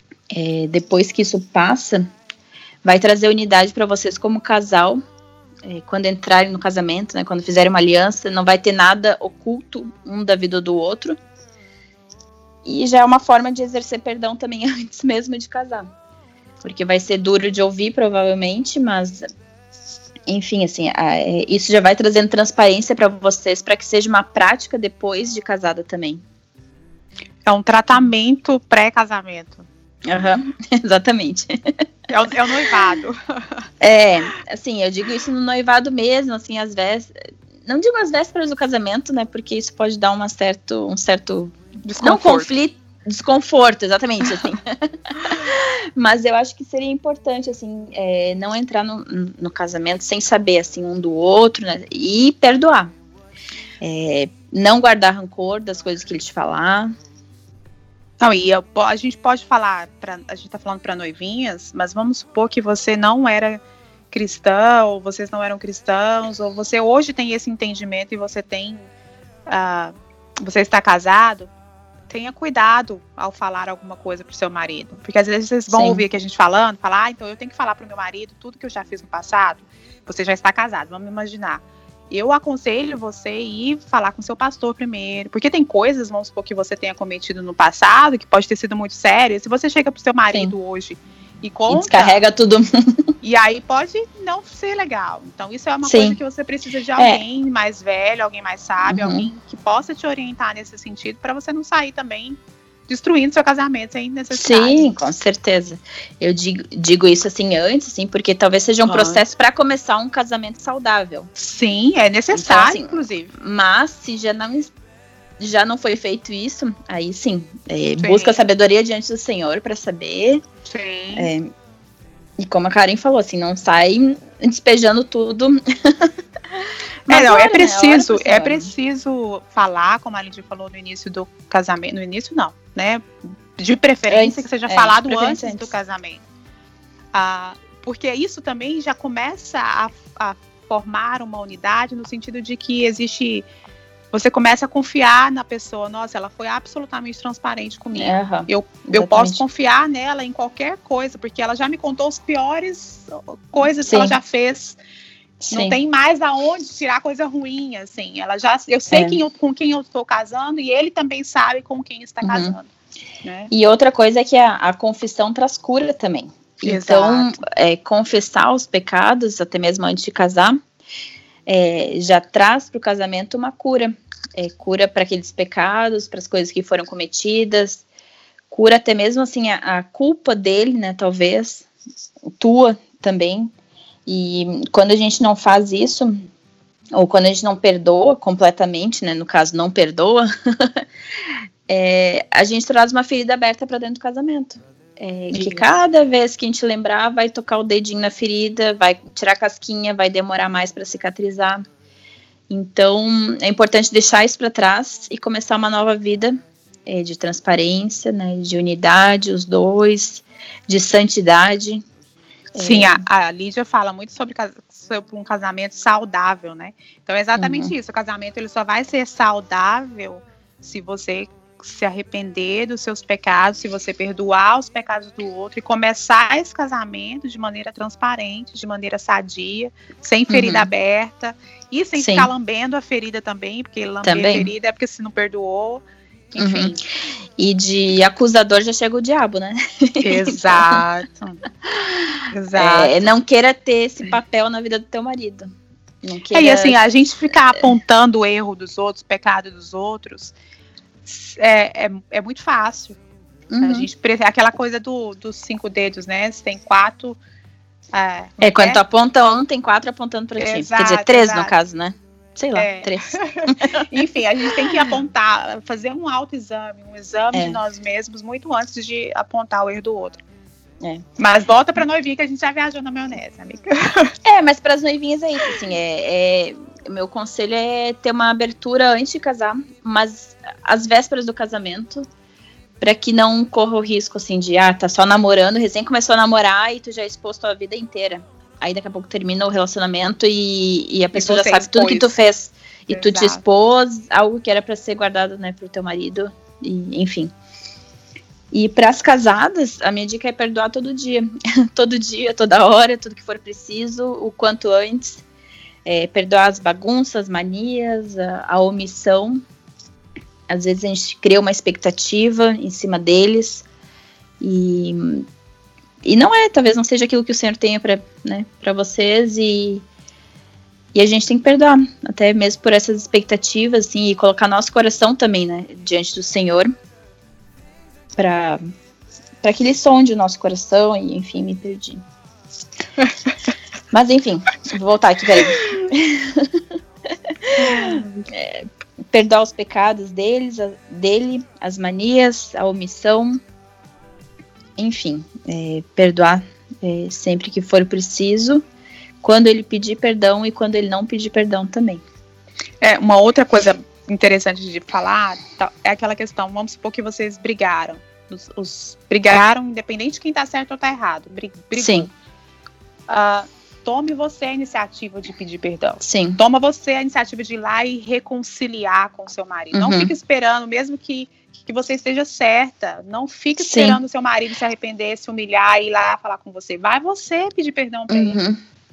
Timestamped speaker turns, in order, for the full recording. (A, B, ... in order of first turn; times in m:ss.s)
0:00.3-0:02.0 A
0:02.8-0:05.0 A
0:05.6-0:11.2 A
0:12.6-0:15.9 A
0:16.6-0:19.2 A
0:20.3-0:26.2 A
0:27.4-0:29.6 B
0:30.0-0:31.8 A
0:32.1-0:33.2 B
0:33.8-0:52.9 A
0:41.8-0:42.5 B
0:53.8-0:56.9 A
0:58.2-1:03.6 B
1:04.1-1:08.8 B
1:09.5-1:11.5 B
1:12.1-1:32.2 B
1:15.7-1:16.0 A
1:31.7-1:33.1 A
1:33.2-1:44.9 B
1:35.8-1:36.2 A
1:37.0-1:37.2 A
1:38.8-1:39.3 A
1:44.3-1:51.3 A
1:48.8-1:49.2 B
1:51.4-1:53.3 B
1:52.3-1:54.7 A
1:55.4-2:00.4 A
1:58.0-1:58.4 B
2:00.7-2:01.3 B
2:01.1-2:01.5 A
2:02.4-2:06.1 A
2:07.1-2:08.7 A
2:07.1-2:16.2 B
2:14.1-2:15.7 A
2:17.1-2:23.4 B
2:24.1-2:34.8 B
2:28.0-2:29.4 A
2:33.8-2:34.2 A
2:35.4-2:35.8 A
2:35.5-2:42.7 B
2:38.9-2:39.2 A
2:42.2-2:42.5 A
2:43.2-2:43.5 B
2:43.5-2:50.6 A
2:46.6-2:47.4 B
2:51.4-2:57.8 A
2:58.5-3:01.6 A
3:02.4-3:03.5 A
3:04.0-3:06.3 A
3:06.9-3:10.8 A
3:11.7-3:21.6 A
3:15.3-3:15.7 B
3:22.5-3:31.8 A
3:32.6-3:33.0 A
3:32.6-3:56.8 B
3:37.4-3:37.7 A
3:50.3-3:50.7 A
3:52.0-3:52.3 A
3:54.0-3:54.5 A
3:56.4-3:56.8 A
3:57.4-4:00.8 A
4:00.0-4:01.4 B
4:01.6-4:05.5 A
4:02.3-4:03.1 B
4:06.0-4:06.8 A
4:06.3-4:10.3 B
4:11.0-4:13.0 B
4:13.5-4:13.9 A
4:13.6-4:17.2 B
4:17.9-4:18.8 B
4:18.4-4:23.8 A
4:20.4-4:21.5 B
4:22.6-4:30.2 B
4:27.3-4:27.6 A
4:31.2-4:34.1 B
4:34.2-4:42.0 A
4:42.8-4:57.3 A
4:51.1-4:52.1 B
4:52.9-4:53.4 B
4:58.5-5:05.2 A
5:05.8-5:09.4 A
5:10.5-5:13.6 A
5:14.4-5:15.2 A
5:16.0-5:19.8 A
5:20.9-5:26.7 A
5:28.2-5:28.6 A
5:29.4-5:32.0 A
5:33.9-5:36.6 A
5:37.3-5:43.4 A
5:37.6-5:38.3 B
5:44.8-5:48.6 A
5:49.2-5:52.0 A
5:52.8-6:02.1 B
6:01.7-6:02.1 A
6:03.1-6:18.4 B
6:06.0-6:06.4 A
6:09.7-6:10.1 A
6:13.6-6:14.0 A
6:18.1-6:18.6 A